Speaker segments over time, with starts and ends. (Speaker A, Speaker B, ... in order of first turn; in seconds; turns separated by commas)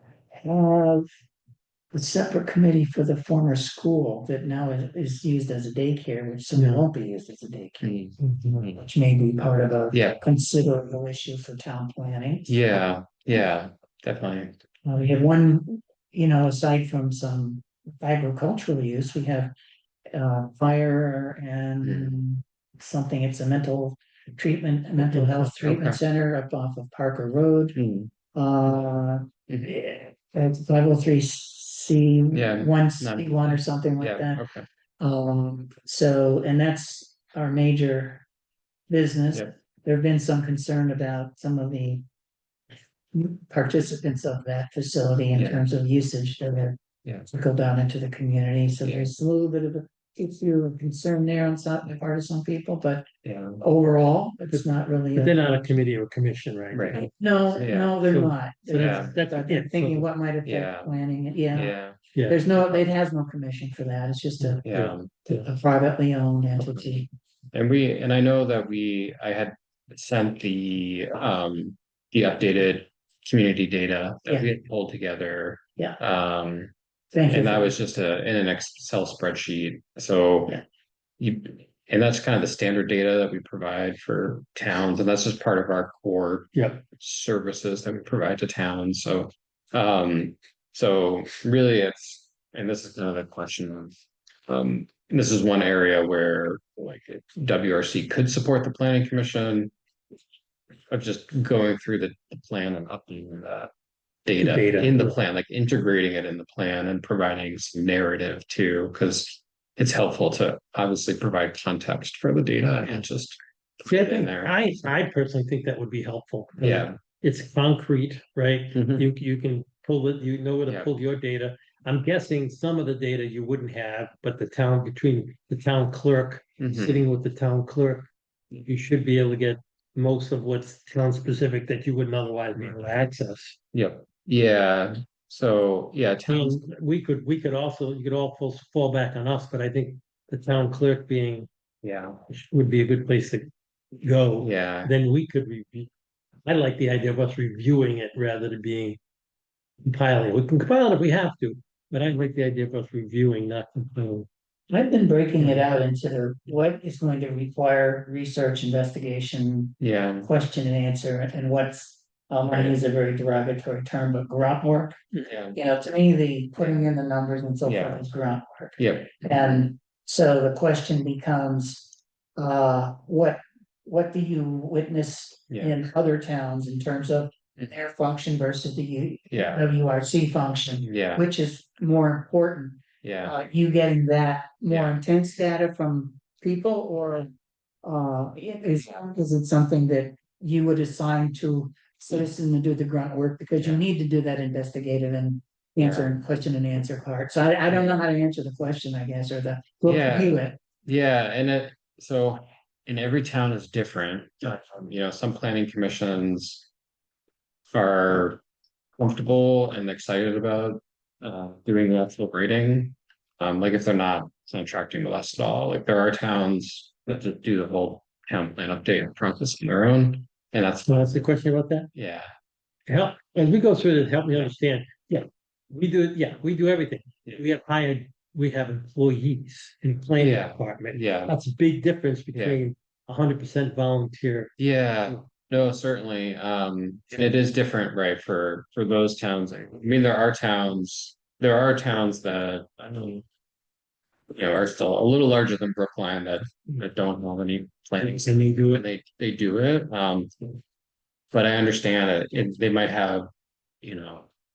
Speaker A: 0.3-1.1, Speaker A: 1.9-8.0, Speaker B: 6.5-6.9, Speaker C: 7.8-8.9, Speaker B: 8.2-8.7, Speaker A: 8.9-12.7, Speaker C: 9.9-10.2, Speaker C: 12.5-14.6, Speaker A: 14.8-19.5, Speaker A: 20.1-27.8, Speaker C: 21.8-22.1, Speaker C: 25.0-26.0, Speaker C: 27.7-28.1, Speaker A: 28.3-34.4, Speaker C: 32.3-34.7, Speaker A: 35.0-38.2, Speaker A: 38.9-42.0, Speaker A: 43.1-53.1, Speaker C: 45.3-45.7, Speaker C: 48.8-49.1, Speaker C: 53.2-53.6, Speaker A: 53.6-55.7, Speaker B: 54.5-57.1, Speaker C: 56.7-58.0, Speaker A: 57.0-61.8, Speaker B: 58.0-60.1, Speaker C: 58.7-59.1, Speaker C: 60.4-60.9, Speaker C: 61.5-62.0, Speaker B: 62.1-62.4, Speaker A: 62.3-64.7, Speaker C: 62.5-62.8, Speaker B: 64.4-65.4, Speaker C: 64.6-65.4, Speaker A: 65.3-67.1, Speaker C: 66.6-67.0, Speaker C: 67.5-76.7, Speaker A: 77.1-77.8, Speaker C: 77.3-80.6, Speaker C: 81.2-99.7, Speaker B: 86.5-86.8, Speaker C: 100.9-103.7, Speaker C: 104.2-114.6, Speaker B: 104.4-105.2, Speaker B: 113.8-133.6, Speaker C: 116.6-117.0, Speaker C: 118.7-119.1, Speaker C: 126.6-127.0, Speaker C: 133.7-136.7, Speaker B: 136.3-141.5, Speaker C: 141.8-142.2, Speaker B: 142.3-145.9, Speaker C: 144.4-144.9, Speaker B: 146.4-149.0, Speaker B: 149.8-154.3, Speaker A: 154.7-187.3, Speaker B: 155.4-155.6, Speaker C: 159.8-160.3, Speaker C: 162.4-162.8, Speaker C: 165.3-165.6, Speaker C: 166.6-166.8, Speaker C: 167.6-168.1, Speaker C: 168.8-169.5, Speaker C: 175.5-175.8, Speaker C: 179.3-179.7, Speaker C: 180.8-181.2, Speaker C: 183.0-183.3, Speaker C: 184.7-185.0, Speaker A: 187.8-200.6, Speaker C: 195.8-196.1, Speaker C: 197.7-198.0, Speaker C: 199.8-206.7, Speaker C: 207.7-208.4, Speaker C: 209.0-221.1, Speaker B: 220.8-221.9, Speaker C: 221.9-222.3, Speaker B: 222.9-235.2, Speaker C: 230.2-231.3, Speaker C: 232.3-232.6, Speaker C: 234.6-243.2, Speaker C: 244.3-250.3, Speaker B: 248.0-248.8, Speaker C: 251.3-253.3, Speaker C: 253.8-254.3